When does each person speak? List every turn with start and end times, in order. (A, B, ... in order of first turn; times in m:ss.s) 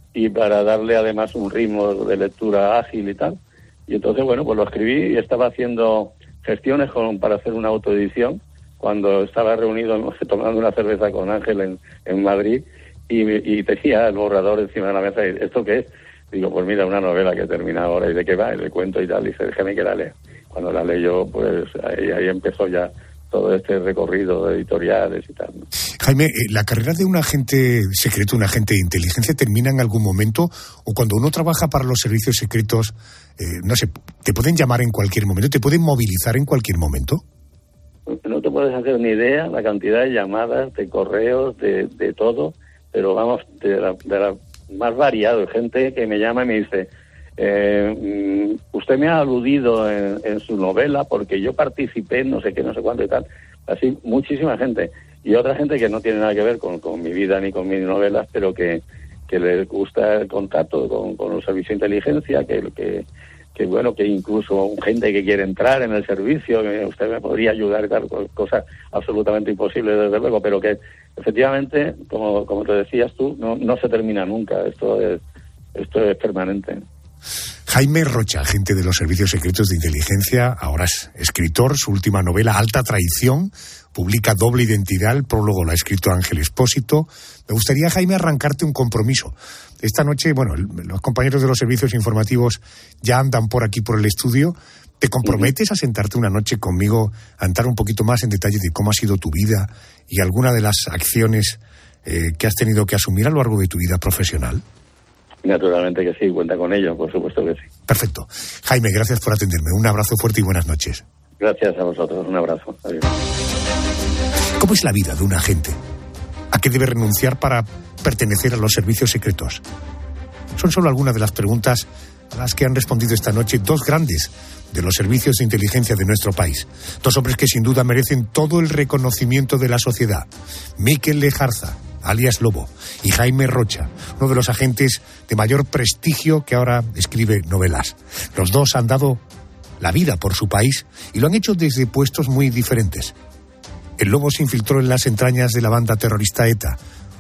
0:00.1-0:25.6 A
0:26.0-0:37.2 B
0:38.1-1:03.0 A
1:03.6-1:15.2 A
1:15.8-1:16.8 A
1:17.7-1:44.6 B
1:35.2-1:35.5 A
1:45.4-1:47.7 A
1:47.9-1:51.0 B
1:51.4-1:53.1 A
1:54.6-1:55.8 B
1:56.5-1:59.6 B
2:00.6-2:19.2 B
2:19.8-2:23.2 B
2:24.0-2:26.8 B